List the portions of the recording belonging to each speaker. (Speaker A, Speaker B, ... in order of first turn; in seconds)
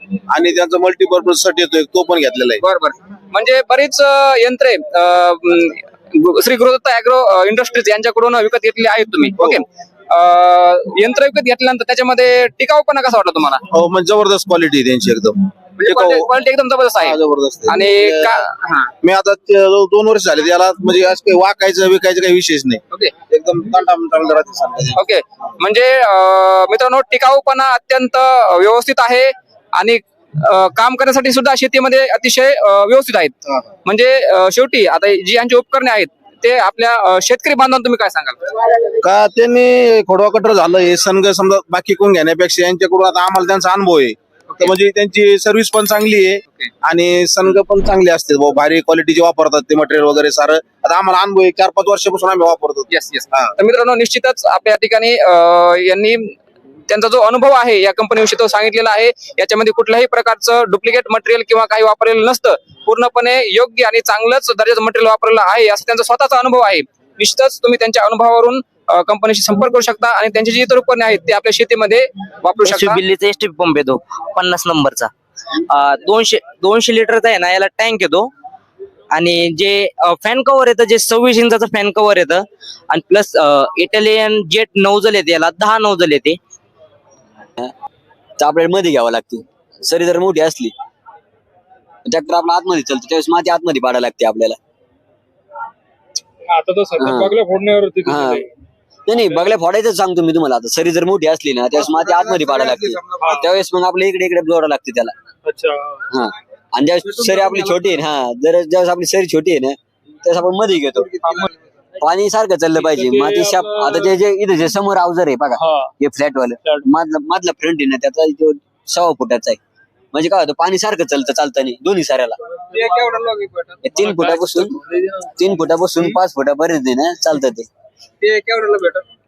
Speaker A: 0.3-2.6, 13.7-16.3, 17.0-18.3, 19.0-25.0, 39.0-53.5, 101.7-103.3, 107.1-107.9
Speaker B: 2.6-13.6, 15.8-18.9, 24.9-38.6, 52.9-56.3, 56.9-73.0, 122.7-123.9, 128.2-129.0
Speaker C: 72.6-75.1, 75.7-78.3, 79.1-86.4
Speaker D: 88.4-90.7, 92.0-94.6, 97.0-97.3, 98.0-98.5, 99.1-105.1, 106.1-111.1, 112.0-119.6, 120.1-122.4, 123.8-124.8, 125.4-127.7
Speaker E: 96.5-98.5, 103.2-103.5, 105.4-106.0, 112.7-114.2, 115.6-115.9, 124.0-125.2